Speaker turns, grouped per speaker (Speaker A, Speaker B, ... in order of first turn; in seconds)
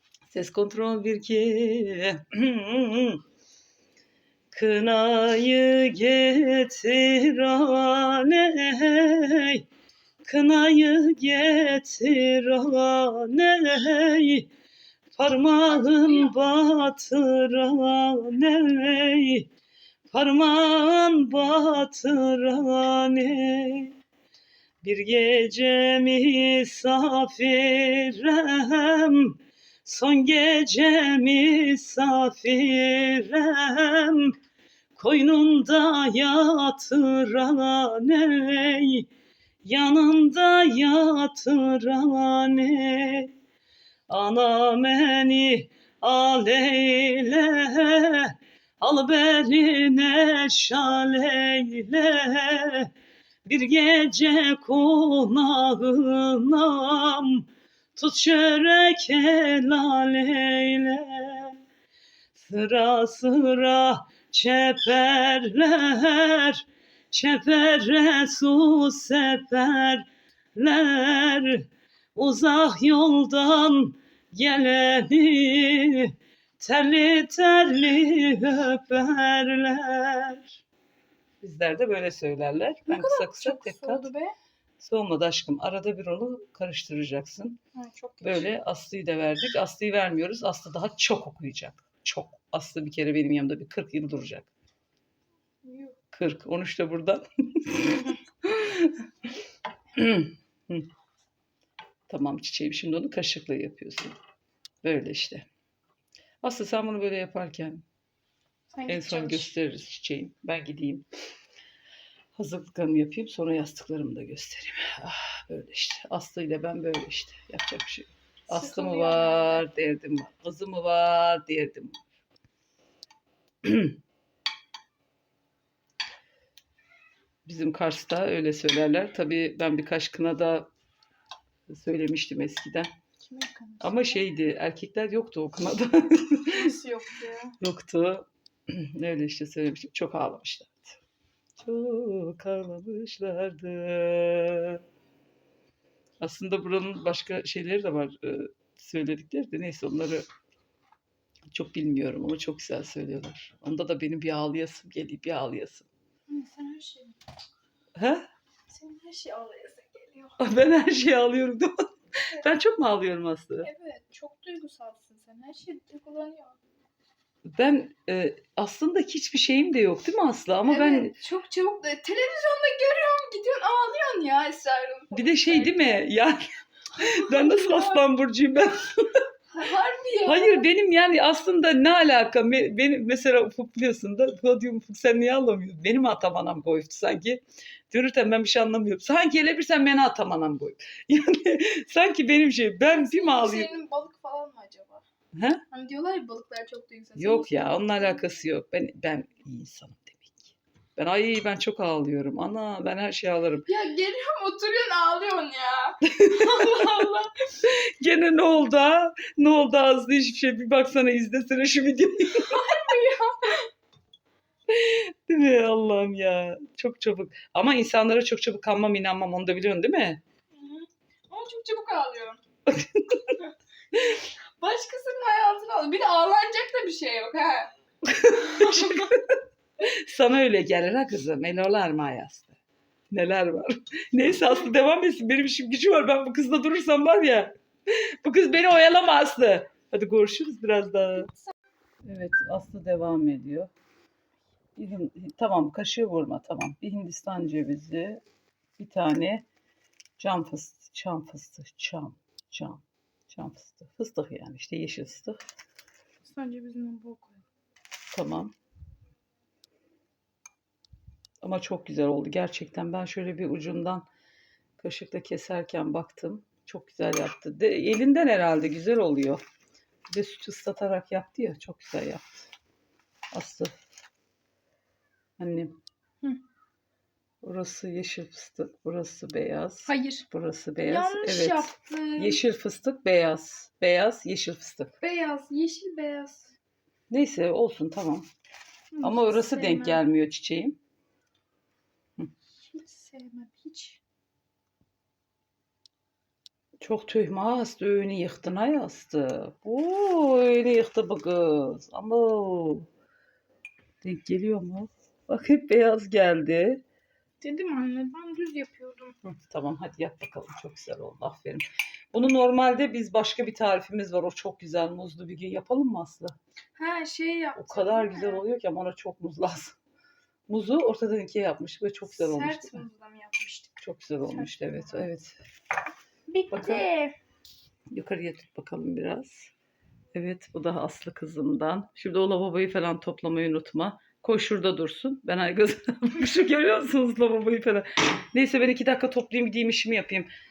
Speaker A: 0.3-3.2, 4.5-9.7, 10.2-14.5, 15.1-19.5, 20.1-23.9, 24.8-34.4, 35.0-39.1, 39.6-43.3, 44.1-52.9, 53.5-61.6, 62.4-80.6, 81.4-84.1, 84.8-87.6, 88.2-94.5, 96.1-99.1, 100.0-100.9, 102.1-104.2, 104.8-105.5, 106.4-107.8, 108.9-111.1, 112.3-122.1, 123.6-124.0, 127.5-130.7, 131.7-132.9, 133.8-136.7, 137.6-141.0, 141.6-144.8, 146.2-150.3, 151.5-155.9, 158.0-158.2, 160.4-163.7, 167.6-171.1, 175.1-176.4, 177.0-179.2, 180.2-193.8, 195.4-195.6, 197.2-203.7, 206.1-207.1, 207.6-212.9, 214.7-220.2, 222.7-223.3, 228.1-232.6, 233.1-237.5, 238.2-241.3, 242.1-243.7, 244.8-248.2, 248.8-249.4, 250.2-255.4, 258.1-258.5, 261.4-264.1, 264.8-269.4, 270.1-272.5, 273.3-273.7, 275.4-275.8, 277.4-284.9, 287.1-288.3, 289.0-290.8, 296.8-302.9, 304.0-306.8, 309.2-316.4, 317.6-319.8, 320.5-322.9, 323.8-325.4, 326.5-326.9, 327.9-329.5, 330.1-340.3
Speaker B: 15.7-16.3, 82.9-84.3, 87.7-88.5, 95.6-96.0, 108.7-109.5, 118.5-119.7, 133.2-134.2, 136.5-137.6, 156.3-157.2, 158.7-160.4, 163.6-166.6, 170.7-176.1, 177.0-178.1, 179.5-180.7, 192.9-195.1, 195.7-198.2, 203.7-207.4, 212.4-213.7, 220.6-222.4, 223.4-227.7, 228.5-229.1, 256.2-257.4, 279.9-280.3, 280.9-282.4, 285.0-286.6, 288.9-290.0, 292.6-294.0, 307.4-309.2, 316.8-318.4, 322.1-325.1, 326.3-327.1